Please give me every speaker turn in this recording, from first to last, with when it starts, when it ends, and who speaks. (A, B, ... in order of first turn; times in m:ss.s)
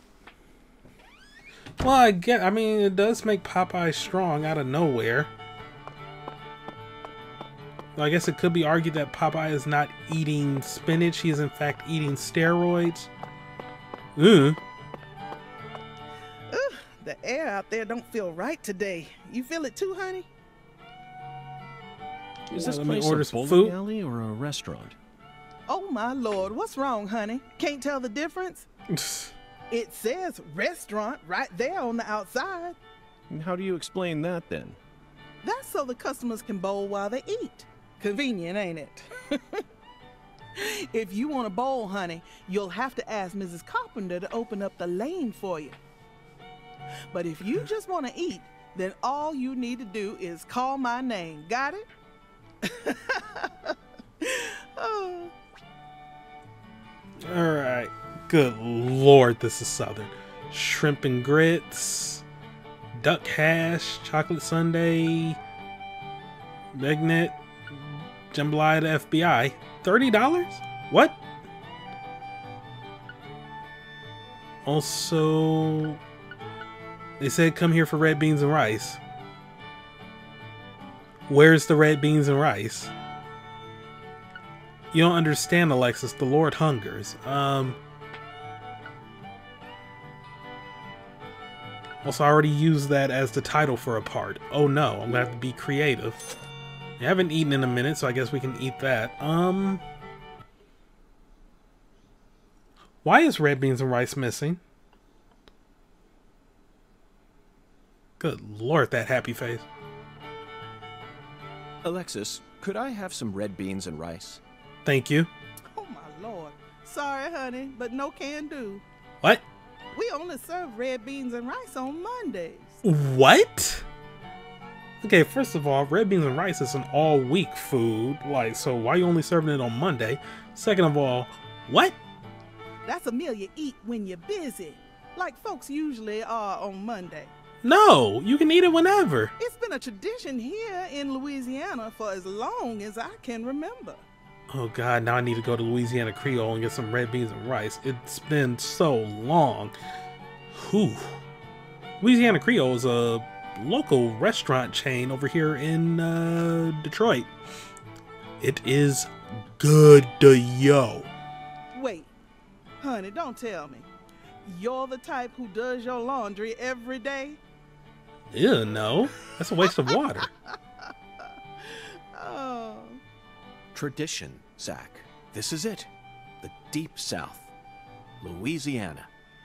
0:01.8-0:05.3 A
0:08.0-0:13.1 A
0:14.2-0:14.6 A
0:16.5-0:20.3 B
0:22.5-0:25.0 C
0:22.6-0:23.8 A
0:25.7-0:28.7 B
0:28.9-0:29.3 A
0:29.7-0:32.8 B
0:33.3-0:34.8 C
0:35.4-0:39.6 B
0:40.6-0:45.8 B
0:47.1-0:51.9 B
0:52.6-0:55.3 B
0:57.2-1:02.2 A
1:03.0-1:05.4 A
1:06.7-1:11.2 A
1:14.6-1:16.0 A
1:17.2-1:19.0 A
1:21.3-1:22.9 A
1:24.9-1:27.8 A
1:32.0-1:36.2 A
1:37.0-1:39.8 A
1:43.0-1:44.6 A
1:48.2-1:49.6 A
1:51.8-1:54.4 C
1:54.8-1:55.3 A
1:55.7-1:58.8 B
1:59.9-2:02.8 B
2:02.8-2:03.9 A
2:05.0-2:12.0 A
2:12.9-2:17.3 B
2:17.6-2:19.3 A
2:19.4-2:24.0 B
2:24.5-2:29.7 A
2:30.5-2:31.2 A
2:32.0-2:37.3 A
2:38.4-2:41.1 A
2:41.7-2:42.1 B
2:42.8-2:43.9 B
2:44.4-2:47.4 B
2:48.3-2:50.3 A
2:50.8-2:53.0 B
2:53.7-2:55.9 C
2:56.4-2:57.5 C
2:58.2-2:59.1 C